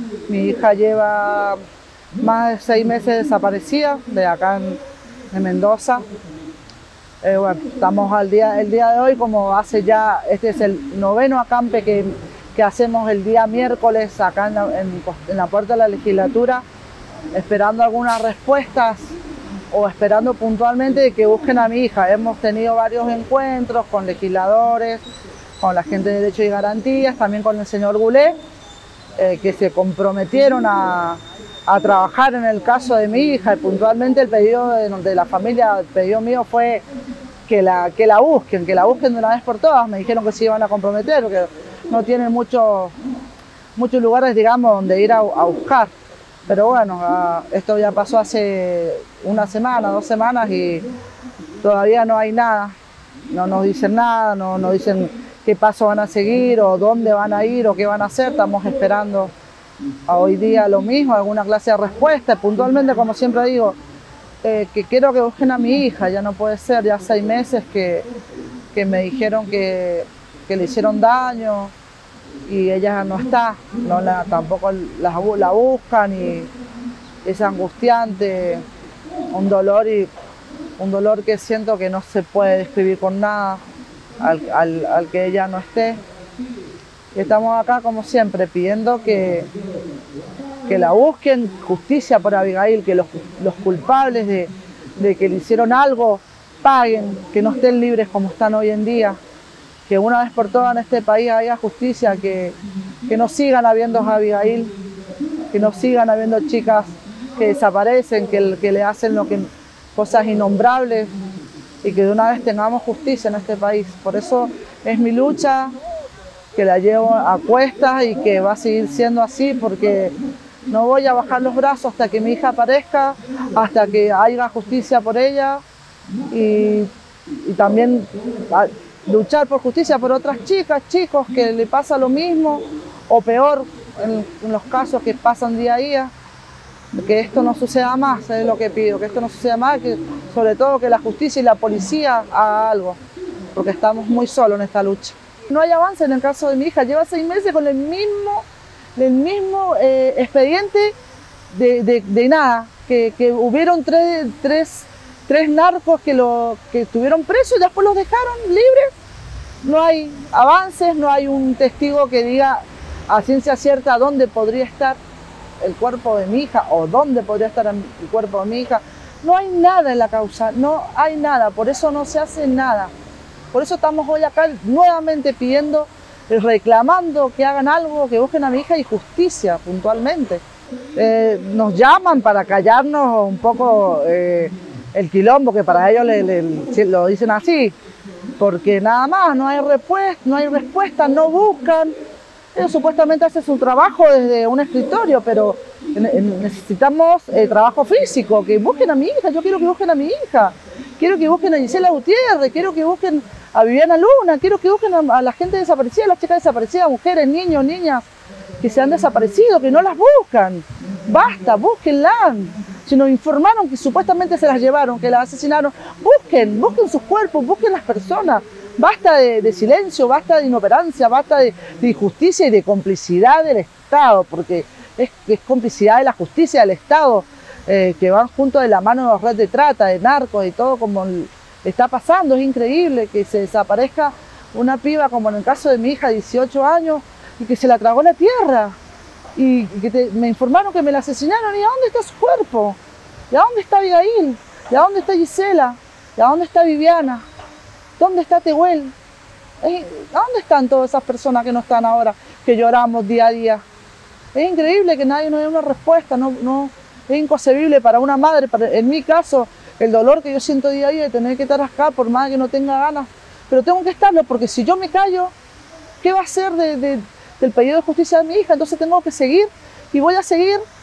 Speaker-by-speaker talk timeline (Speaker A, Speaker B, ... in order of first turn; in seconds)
Speaker A: 0.3-1.6, 2.2-4.8, 5.3-6.0, 7.2-16.6, 17.3-19.1, 19.7-25.0, 25.6-28.4, 29.2-36.8, 37.5-42.9, 43.8-45.9, 46.5-50.9, 51.6-52.7, 53.3-59.3, 60.1-63.8, 64.4-68.1, 68.7-71.7, 72.5-76.5, 77.2-78.6, 79.3-80.1, 80.8-83.6, 84.2-86.0, 87.2-89.5, 90.7-99.2, 99.9-104.7, 105.5-111.1, 111.8-115.7, 116.5-120.1, 120.7-125.6, 126.3-126.9, 127.4-136.1, 136.9-143.0, 143.6-150.9, 151.5-158.9, 159.6-165.0, 165.6-172.9, 173.5-180.4, 180.9-187.7, 188.4-191.9, 192.5-208.1, 208.6-238.7, 239.4-242.8, 243.3-247.2, 248.0-248.9, 249.6-253.6, 254.3-265.3, 266.0-270.6